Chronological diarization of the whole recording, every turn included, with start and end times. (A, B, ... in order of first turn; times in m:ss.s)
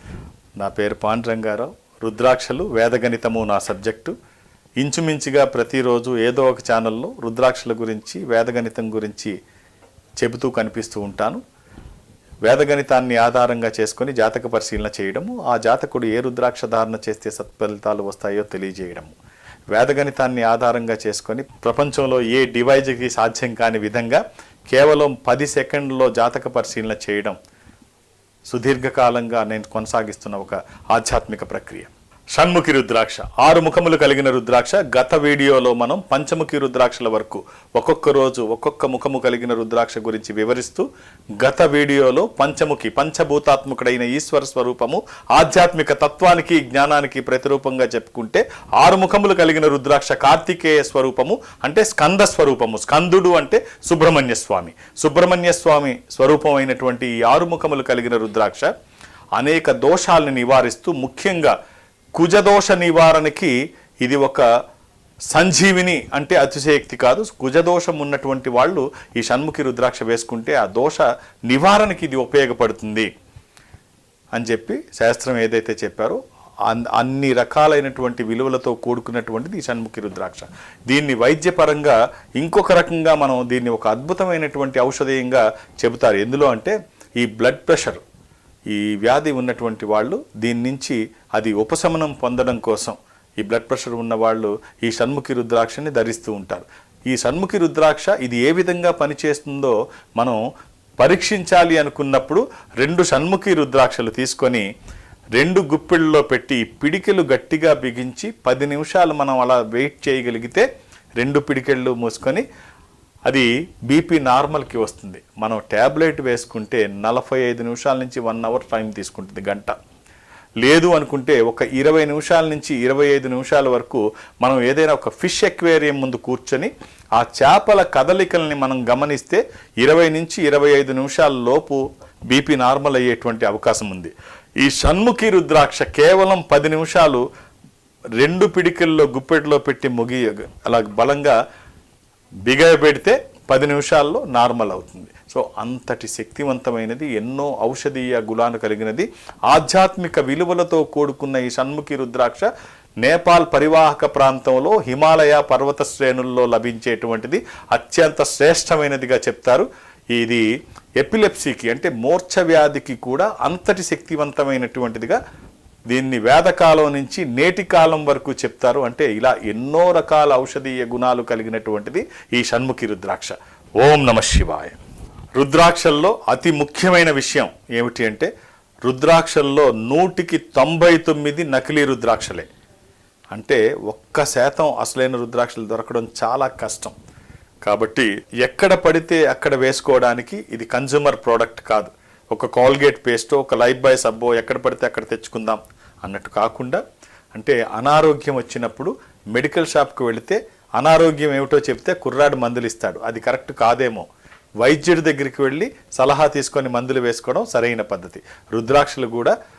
0:00.6-0:04.1 A
0:04.8-0:09.3 A
0:10.2-0:11.4 A
0:12.4-0:19.1 A
0:19.7-0:27.3 A
0:28.5-0:40.8 A
0:41.4-0:58.7 A
0:59.4-1:01.6 A
1:02.1-1:04.4 A
1:05.3-1:13.1 A
1:14.3-1:28.0 A
1:28.7-1:40.4 A
1:41.0-1:44.6 A
1:45.4-1:50.7 A
1:51.2-1:52.4 A
1:53.3-1:59.8 A
2:00.6-2:17.2 A
2:18.2-2:21.4 A
2:22.4-2:32.5 A
2:33.0-2:40.4 A
2:41.0-2:45.2 A
2:45.9-2:54.8 A
2:55.3-2:58.3 A
2:58.8-3:02.5 A
3:03.3-3:06.9 A
3:07.6-3:16.8 A
3:17.3-3:24.1 A
3:24.6-3:29.3 A